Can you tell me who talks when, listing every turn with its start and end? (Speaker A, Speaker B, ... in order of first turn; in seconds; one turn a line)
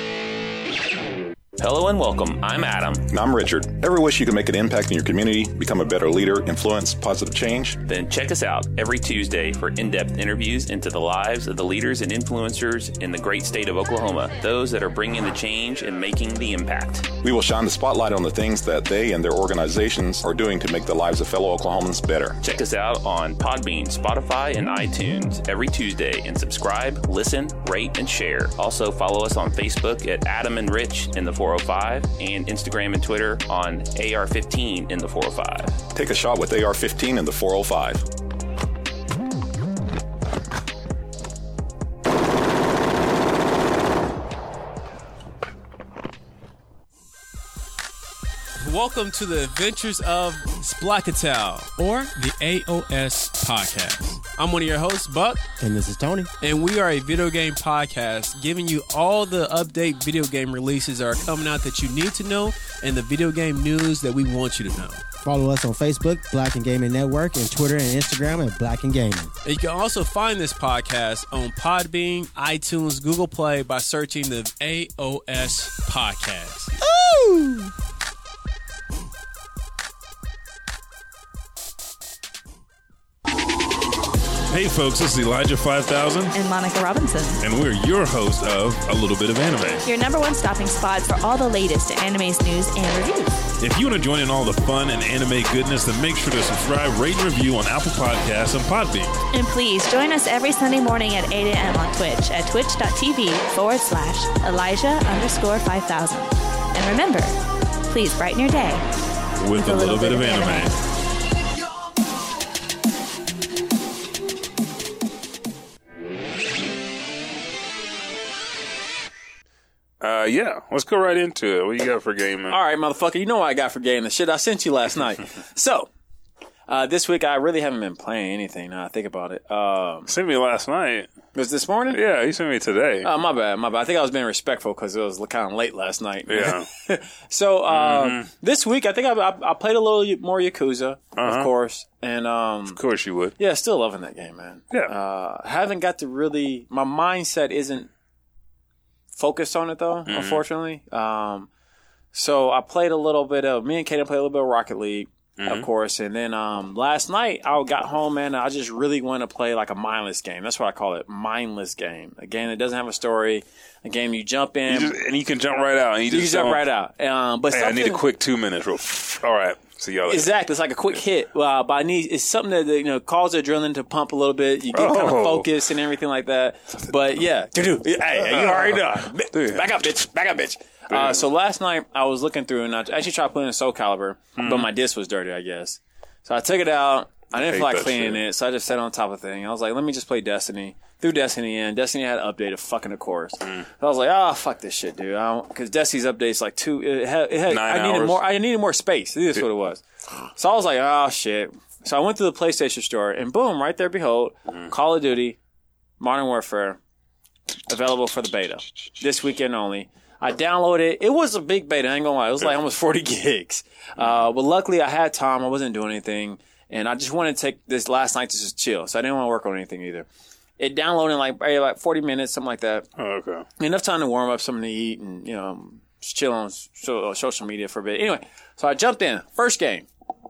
Speaker A: 1.6-3.1
Speaker B: 3.1-7.8
Speaker A: 7.9-17.1
Speaker B: 17.2-22.5
Speaker A: 22.4-35.8
Speaker B: 35.9-38.1
Speaker C: 48.6-55.5
Speaker D: 55.6-56.3
Speaker C: 56.4-65.0
Speaker D: 65.2-69.3
Speaker C: 69.4-76.8
Speaker E: 84.5-86.3
Speaker F: 86.3-87.4
Speaker E: 87.4-89.8
Speaker F: 89.8-93.4
Speaker E: 93.6-99.2
Speaker F: 99.3-108.9
Speaker E: 109.4-110.8
Speaker F: 109.5-110.8
Speaker E: 120.0-122.6
Speaker G: 122.5-125.9
Speaker G: 126.7-130.1
Speaker E: 130.1-131.1
Speaker G: 131.3-132.0
Speaker E: 131.9-133.1
Speaker G: 133.0-142.8
Speaker E: 136.3-136.7
Speaker E: 137.7-138.3
Speaker E: 141.2-141.5
Speaker E: 142.7-143.3
Speaker G: 143.4-147.9
Speaker G: 149.1-151.5
Speaker E: 150.1-150.4
Speaker G: 152.1-165.0
Speaker E: 155.4-155.7
Speaker E: 164.7-166.6
Speaker G: 166.1-168.1
Speaker E: 167.5-170.3
Speaker G: 170.1-199.8
Speaker E: 174.7-175.5
Speaker E: 178.1-179.9
Speaker E: 180.9-181.3
Speaker E: 184.4-184.7
Speaker E: 187.4-188.2
Speaker E: 197.5-198.3
Speaker G: 200.4-205.4
Speaker G: 206.0-206.8
Speaker G: 207.7-220.1
Speaker G: 220.6-222.8
Speaker E: 223.0-223.5
Speaker G: 223.6-229.9